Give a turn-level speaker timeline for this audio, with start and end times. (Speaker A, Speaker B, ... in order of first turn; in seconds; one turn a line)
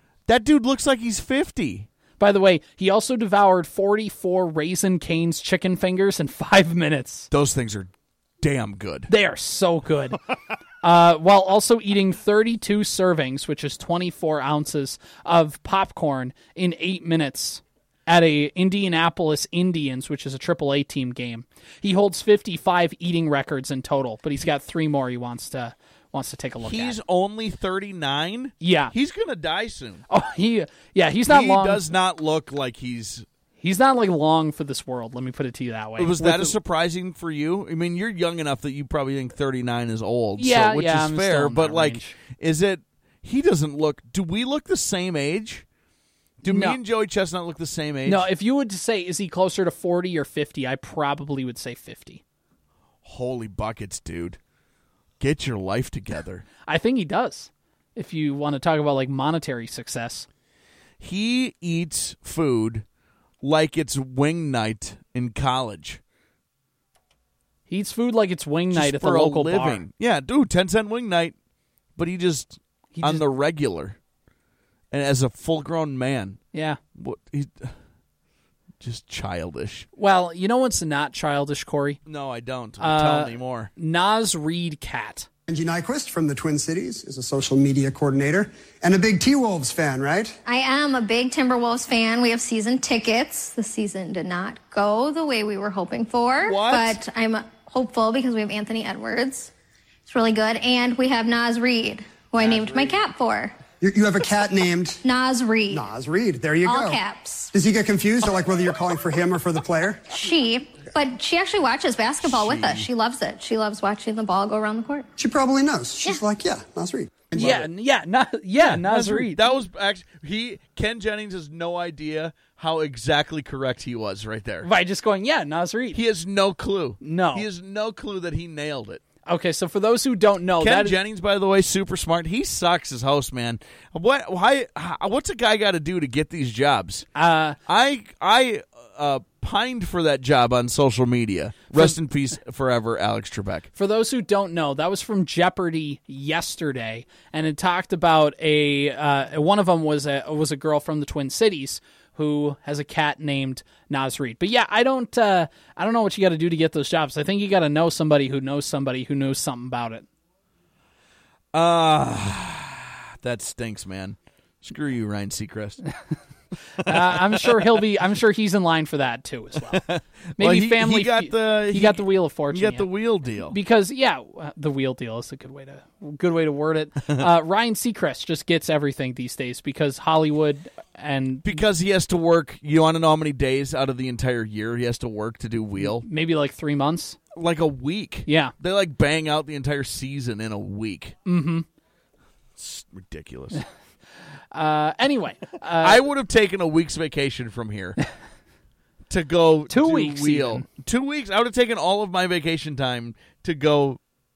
Speaker A: 0.3-1.9
Speaker B: 2.2-7.3
Speaker A: 7.3-9.1
Speaker B: 9.1-10.2
Speaker B: 10.8-27.0
Speaker A: 26.6-30.1
Speaker B: 28.6-28.9
Speaker B: 30.1-31.8
Speaker A: 31.3-33.2
Speaker B: 33.6-36.6
Speaker A: 36.0-45.6
Speaker B: 40.4-42.1
Speaker A: 46.4-48.3
Speaker B: 46.5-46.8
Speaker B: 48.0-52.2
Speaker A: 53.0-54.4
Speaker A: 55.2-56.5
Speaker B: 56.7-60.3
Speaker A: 61.0-62.8
Speaker A: 63.4-66.0
Speaker B: 67.7-69.8
Speaker A: 68.7-71.3
Speaker A: 72.0-74.0
Speaker B: 72.9-73.2
Speaker A: 74.9-76.4
Speaker B: 76.5-76.8
Speaker A: 77.0-77.7
Speaker A: 78.8-79.9
Speaker B: 80.0-82.0
Speaker A: 82.1-83.7
Speaker B: 82.8-85.3
Speaker C: 85.5-90.4
Speaker D: 90.5-99.5
Speaker A: 96.4-97.0
Speaker D: 100.1-103.6
Speaker A: 102.4-103.0
Speaker C: 103.8-105.0
Speaker D: 105.0-105.8
Speaker C: 105.7-110.1
Speaker D: 106.6-107.5
Speaker D: 110.1-115.1
Speaker A: 112.2-112.9
Speaker C: 115.2-117.7
Speaker B: 117.3-119.4
Speaker A: 118.6-124.7
Speaker B: 124.6-126.0
Speaker A: 125.9-129.0
Speaker B: 127.0-127.5
Speaker B: 129.3-131.0
Speaker A: 130.6-137.1
Speaker B: 137.2-137.6
Speaker A: 137.7-143.7
Speaker B: 143.8-160.1
Speaker A: 161.5-165.8
Speaker A: 166.8-167.6
Speaker B: 166.8-169.8
Speaker A: 169.7-173.6
Speaker B: 170.4-172.9
Speaker B: 173.4-181.6
Speaker A: 181.4-186.1
Speaker B: 185.8-187.2
Speaker A: 187.3-191.2
Speaker B: 188.3-188.5
Speaker B: 191.3-191.7
Speaker A: 192.6-193.6
Speaker B: 194.5-196.1
Speaker A: 195.8-198.0
Speaker A: 199.1-204.0
Speaker B: 199.7-200.7